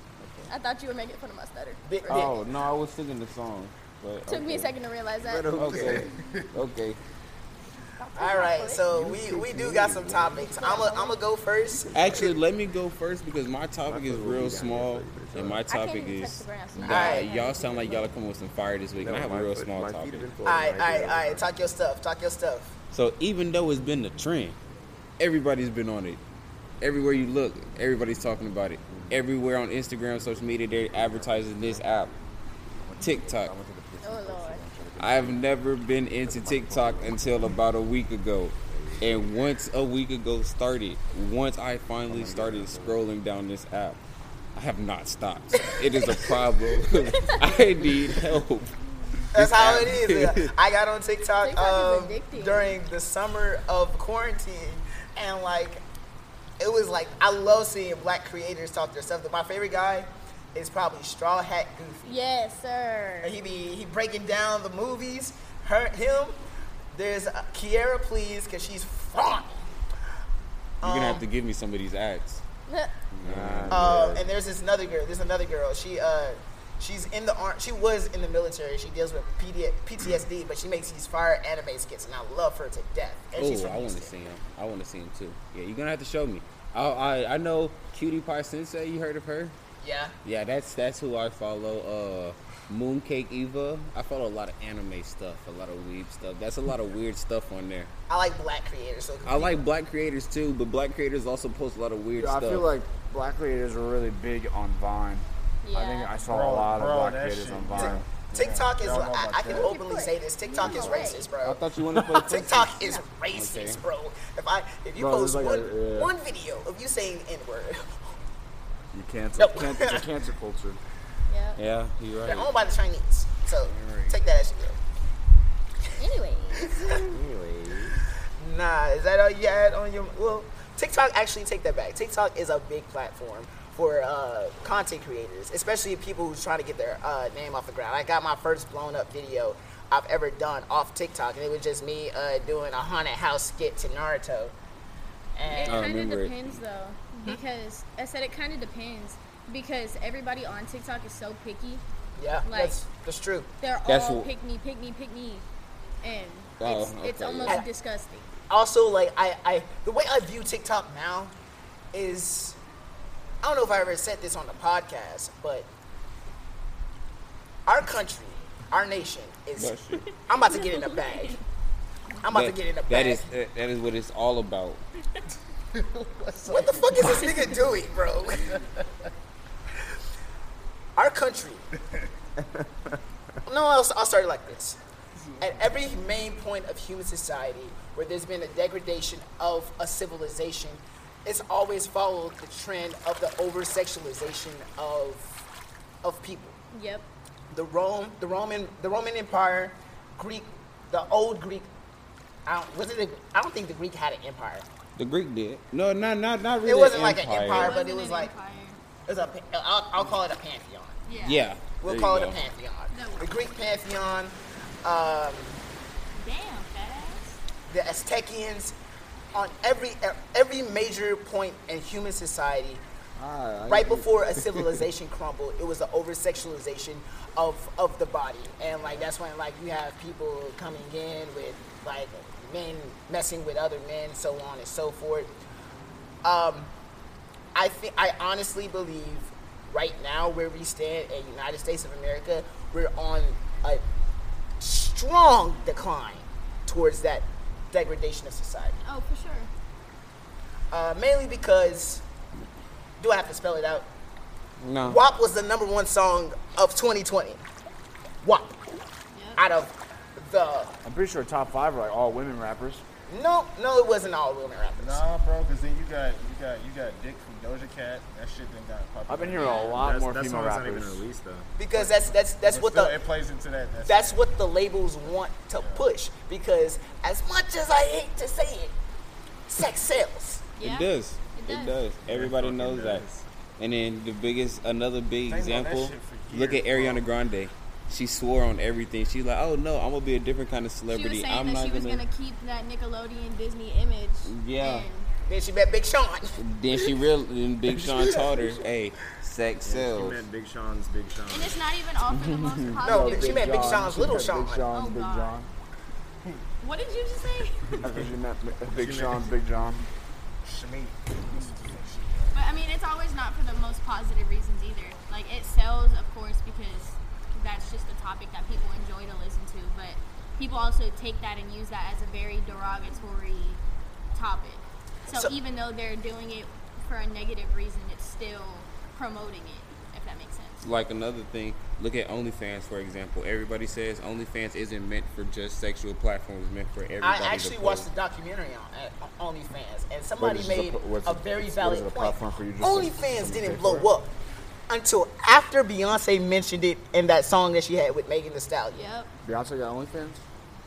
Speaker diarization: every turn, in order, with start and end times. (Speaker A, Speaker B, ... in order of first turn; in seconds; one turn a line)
Speaker A: 0.5-2.3
Speaker B: 1.9-2.4
Speaker C: 2.1-4.7
Speaker A: 4.3-5.7
Speaker C: 5.2-7.0
Speaker D: 5.5-6.1
Speaker E: 5.8-6.5
Speaker A: 8.0-8.9
Speaker B: 8.2-12.3
Speaker D: 8.9-10.6
Speaker A: 10.4-11.2
Speaker C: 11.9-20.3
Speaker D: 13.8-15.6
Speaker A: 15.7-18.1
Speaker B: 16.8-17.3
Speaker D: 19.0-21.5
Speaker B: 20.4-22.8
Speaker C: 22.9-24.6
Speaker C: 25.2-26.2
Speaker C: 26.8-32.1
Speaker F: 32.8-35.5
Speaker C: 33.0-33.6
Speaker A: 34.0-34.6
Speaker C: 35.0-44.0
Speaker F: 36.2-37.2
Speaker D: 38.8-39.1
Speaker F: 42.1-43.0
Speaker C: 44.5-48.7
Speaker B: 45.6-46.4
Speaker A: 47.1-47.4
Speaker C: 49.3-50.5
Speaker B: 49.3-55.8
Speaker A: 51.4-52.8
Speaker B: 56.6-62.2
Speaker A: 62.0-63.3
Speaker B: 63.2-66.4
Speaker B: 66.9-69.7
Speaker B: 70.8-71.2
Speaker C: 70.8-72.4
Speaker C: 73.2-73.9
Speaker F: 73.2-74.3
Speaker B: 73.7-84.1
Speaker C: 83.3-89.5
Speaker B: 89.8-90.1
Speaker C: 90.2-97.9
Speaker B: 98.1-99.6
Speaker C: 99.2-102.7
Speaker F: 102.2-108.1
Speaker A: 105.6-106.1
Speaker E: 106.2-109.8
Speaker B: 107.7-118.0
Speaker A: 109.5-111.3
Speaker E: 110.6-111.0
Speaker C: 111.4-113.8
Speaker F: 115.0-116.1
Speaker F: 118.9-120.8
Speaker B: 119.4-120.0
Speaker A: 121.3-121.6
Speaker C: 121.6-122.5
Speaker B: 122.2-124.8
Speaker C: 123.7-124.1
Speaker A: 126.0-126.9
Speaker B: 126.6-127.1
Speaker D: 127.0-128.0
Speaker B: 128.4-144.5
Speaker B: 145.3-145.9
Speaker A: 145.5-151.8
Speaker C: 145.6-146.6
Speaker B: 152.2-153.5
Speaker A: 152.4-152.8
Speaker A: 153.6-155.4
Speaker C: 153.9-154.3
Speaker A: 156.0-158.3
Speaker C: 156.6-157.6
Speaker B: 158.5-161.3
Speaker B: 161.9-162.6
Speaker B: 163.4-165.7
Speaker B: 167.7-171.4
Speaker C: 169.6-170.1
Speaker A: 170.0-171.4
Speaker B: 172.2-173.2
Speaker C: 172.3-174.8
Speaker E: 175.8-177.3
Speaker B: 176.5-178.6
Speaker B: 181.0-181.7
Speaker B: 183.5-184.8
Speaker E: 185.3-185.7
Speaker B: 185.4-195.4
Speaker B: 196.0-196.6
Speaker A: 196.7-197.1
Speaker B: 197.5-201.7
Speaker B: 202.5-204.7
Speaker C: 205.0-207.8
Speaker B: 206.6-208.3
Speaker A: 207.5-208.8
Speaker B: 209.1-211.0
Speaker A: 211.0-211.5
Speaker C: 211.2-212.4
Speaker B: 211.8-215.6
Speaker A: 212.9-213.3
Speaker A: 216.2-217.4
Speaker B: 217.7-218.8
Speaker B: 219.3-222.8
Speaker D: 223.2-224.7
Speaker B: 223.6-235.3
Speaker B: 236.2-236.7
Speaker B: 237.5-243.8
Speaker B: 244.6-248.8
Speaker A: 248.8-249.5
Speaker B: 250.7-252.0
Speaker B: 253.0-253.9
Speaker C: 254.6-255.0
Speaker B: 254.8-257.4
Speaker B: 258.2-258.6
Speaker A: 259.1-259.4
Speaker B: 259.4-260.7
Speaker F: 260.8-262.8
Speaker B: 263.1-265.0
Speaker E: 264.8-274.3
Speaker F: 269.1-271.0
Speaker A: 269.3-269.8
Speaker B: 271.6-273.0
Speaker B: 273.9-278.8
Speaker E: 275.6-275.8
Speaker B: 279.5-280.5
Speaker A: 280.6-281.8
Speaker C: 280.6-283.0
Speaker E: 282.1-283.2
Speaker C: 283.6-292.0
Speaker E: 285.3-287.1
Speaker A: 290.9-295.1
Speaker C: 294.3-294.9
Speaker B: 295.2-296.4
Speaker C: 296.4-300.2
Speaker D: 299.6-301.6
Speaker A: 301.3-303.8
Speaker C: 302.1-302.8
Speaker F: 302.8-305.5
Speaker B: 302.8-304.6
Speaker A: 304.7-305.4
Speaker A: 306.6-307.8
Speaker F: 307.8-309.9
Speaker E: 308.7-309.3
Speaker E: 310.4-312.4
Speaker A: 312.3-323.6
Speaker A: 324.1-330.7
Speaker B: 325.1-325.3
Speaker C: 330.6-337.9
Speaker B: 337.0-344.1
Speaker F: 340.2-343.9
Speaker B: 344.7-348.9
Speaker A: 348.7-349.1
Speaker F: 349.2-350.2